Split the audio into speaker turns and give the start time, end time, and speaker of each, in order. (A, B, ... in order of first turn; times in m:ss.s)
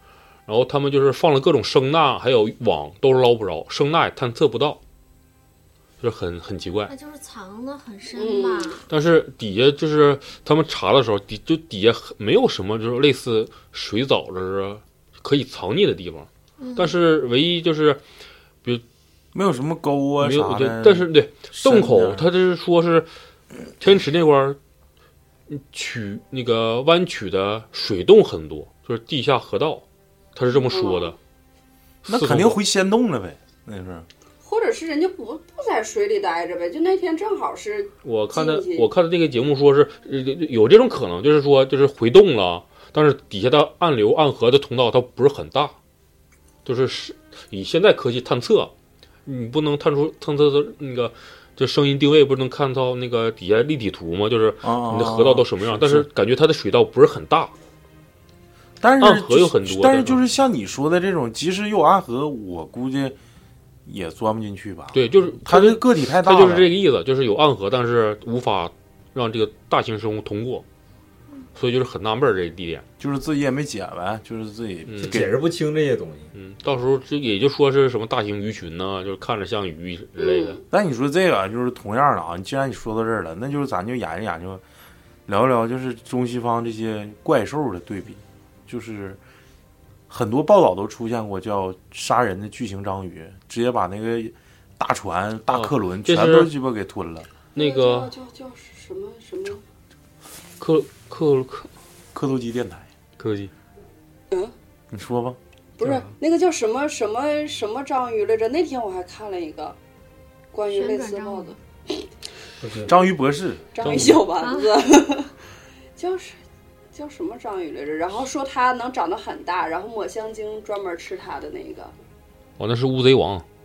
0:00.4-0:04.8 A
0:06.0-0:06.9 A
0:06.9-0:08.8 B
0:08.1-0:08.8 C
0:08.9-0:18.0 A
0:16.6-0:17.0 B
0:19.3-0:22.3 D
0:20.2-0:23.1 A
0:23.8-0:24.6 A
0:25.5-0:31.2 A
0:30.5-0:31.1 C
0:32.0-0:32.6 A
0:32.1-0:34.1 D
0:34.4-0:38.9 C
0:38.0-0:45.8 A
0:46.6-0:48.7 A
0:49.2-0:57.5 A
0:54.6-0:56.1 D
0:58.8-1:03.2 D
0:59.0-1:00.2 A
1:03.8-1:06.7 D
1:04.9-1:10.6 A
1:11.5-1:12.8 A
1:13.0-1:15.3 D
1:14.9-1:15.2 A
1:15.0-1:16.3 E
1:16.3-1:20.6 A
1:20.2-1:20.6 C
1:20.7-1:24.6 D
1:25.3-1:29.2 D
1:30.1-1:37.3 D
1:35.5-1:36.5 A
1:37.5-1:39.6 C
1:37.5-1:38.1 A
1:40.6-1:41.7 A
1:42.1-1:42.8 D
1:43.2-1:43.5 A
1:44.9-1:45.4 D
1:45.8-1:49.8 C
1:45.8-1:46.1 E
1:50.5-1:51.6 C
1:50.7-1:51.6 B
1:52.6-1:52.9 E
1:52.9-1:53.8 D
1:53.7-1:55.3 C
1:53.8-1:54.2 A
1:54.4-1:54.7 B
1:56.0-1:56.4 C
1:56.9-2:01.9 C
2:02.6-2:03.4 A